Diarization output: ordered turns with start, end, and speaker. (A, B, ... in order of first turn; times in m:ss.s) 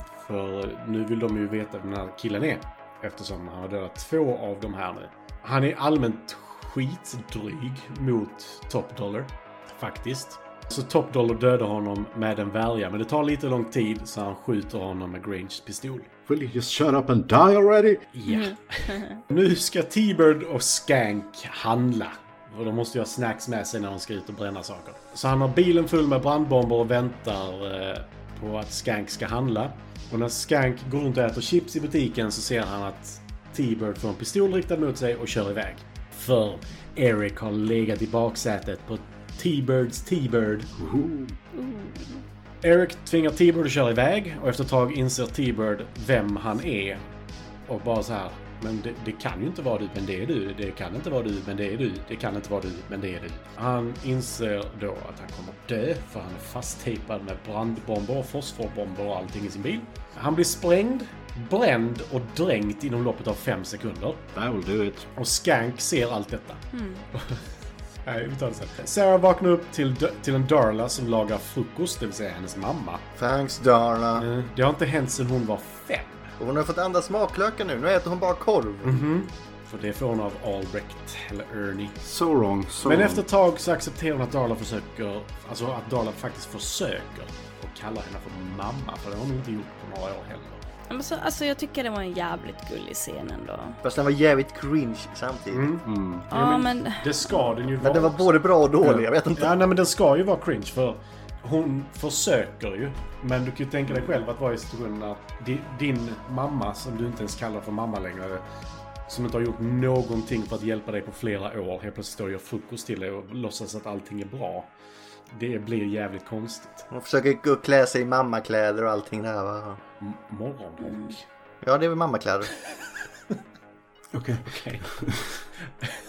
0:00.2-0:16.1 A
0:16.3-0:18.0 B
0:18.1-0:40.7 A
0:18.3-0:19.2 C
0:40.8-0:41.4 B
0:41.6-0:42.2 C
0:42.6-0:47.0 A
0:47.7-1:04.3 A
1:04.4-1:05.1 B
1:05.2-1:06.6 A
1:06.7-1:07.0 C
1:07.2-1:07.4 A
1:08.0-1:13.0 A
1:13.2-1:14.3 D
1:14.2-1:16.3 A
1:16.4-1:19.1 D
1:18.8-1:22.0 A
1:22.0-1:23.2 B
1:22.8-1:30.6 A
1:30.9-1:33.8 C
1:33.8-1:35.7 D
1:35.5-1:38.3 A
1:35.9-1:36.3 B
1:36.3-1:37.4 C
1:37.8-1:39.6 D
1:38.8-1:48.4 A
1:49.1-1:54.7 A
1:55.3-1:56.9 A
1:56.9-1:59.8 D
2:00.0-2:01.2 A
2:00.8-2:01.1 C
2:01.6-2:02.5 D
2:04.1-2:05.3 B
2:04.5-2:04.9 A